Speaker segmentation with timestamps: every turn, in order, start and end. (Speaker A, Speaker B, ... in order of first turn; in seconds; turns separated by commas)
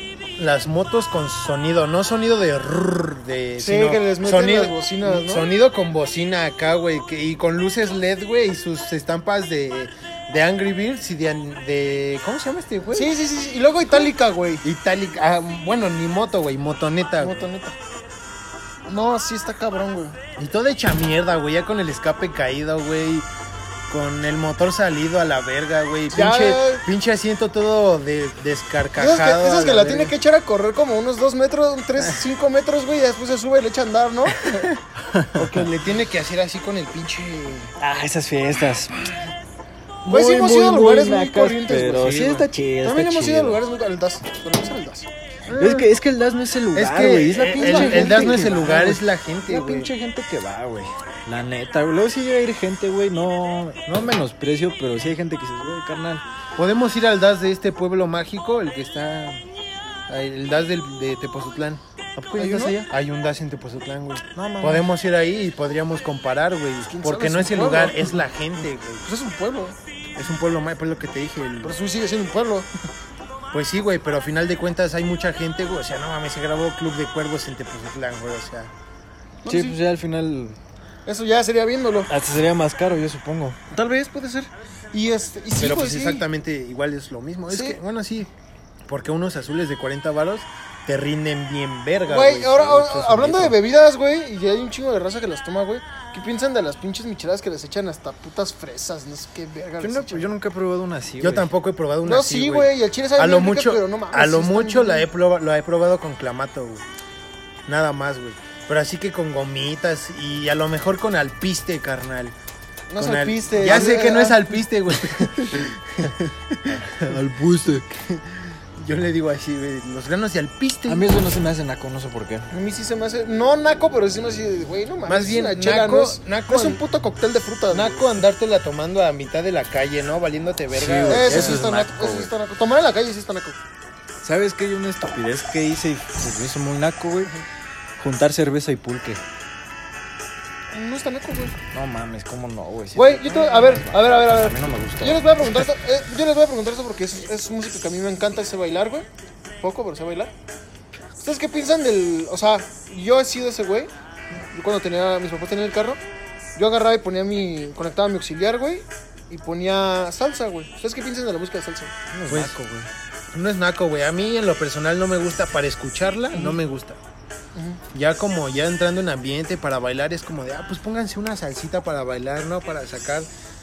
Speaker A: 0.4-13.1, Speaker B: 3.6-5.5, Speaker B: 12.9-14.6, Speaker A: 14.6-17.5, Speaker B: 17.2-17.8, Speaker B: 18.9-20.2, Speaker A: 20.4-23.3, Speaker A: 23.9-30.1, Speaker B: 26.1-26.8, Speaker B: 28.9-34.7, Speaker C: 35.1-35.5, Speaker A: 35.3-37.7, Speaker C: 37.8-39.0, Speaker C: 40.0-43.6, Speaker B: 40.0-45.1, Speaker A: 45.5-45.8, Speaker C: 45.6-56.2, Speaker A: 46.7-49.9, Speaker B: 47.5-48.7, Speaker A: 56.6-59.4, Speaker A: 60.1-61.8, Speaker C: 62.2-62.9, Speaker B: 62.4-62.8, Speaker A: 62.8-69.1, Speaker C: 64.4-64.8, Speaker B: 66.8-68.2, Speaker B: 69.0-69.8, Speaker A: 70.2-71.8, Speaker B: 71.6-72.7, Speaker A: 73.5-78.7, Speaker B: 79.4-79.8, Speaker C: 79.5-80.6, Speaker B: 81.0-82.1, Speaker C: 82.1-83.6, Speaker B: 83.7-86.2, Speaker A: 85.6-88.3, Speaker B: 87.5-87.8, Speaker A: 88.9-93.2, Speaker B: 92.1-100.3, Speaker C: 93.0-93.5, Speaker C: 99.8-101.5, Speaker A: 101.2-106.8, Speaker B: 102.0-105.0, Speaker A: 107.7-112.3, Speaker B: 112.9-114.6, Speaker A: 113.0-117.2, Speaker C: 116.7-118.1, Speaker A: 118.8-121.1, Speaker C: 120.9-122.5, Speaker B: 122.5-128.1, Speaker A: 125.0-126.8, Speaker A: 127.7-131.6, Speaker C: 130.7-132.3, Speaker B: 131.1-133.6, Speaker C: 134.2-137.3, Speaker C: 138.0-139.2, Speaker B: 140.7-141.6, Speaker C: 141.7-145.6, Speaker B: 142.9-149.1, Speaker B: 149.6-150.3, Speaker B: 151.2-153.9, Speaker B: 154.5-156.0, Speaker B: 156.6-161.9, Speaker C: 162.1-162.9, Speaker A: 162.3-162.6, Speaker A: 163.3-167.0, Speaker B: 166.3-166.6, Speaker B: 167.5-167.8, Speaker A: 167.9-173.3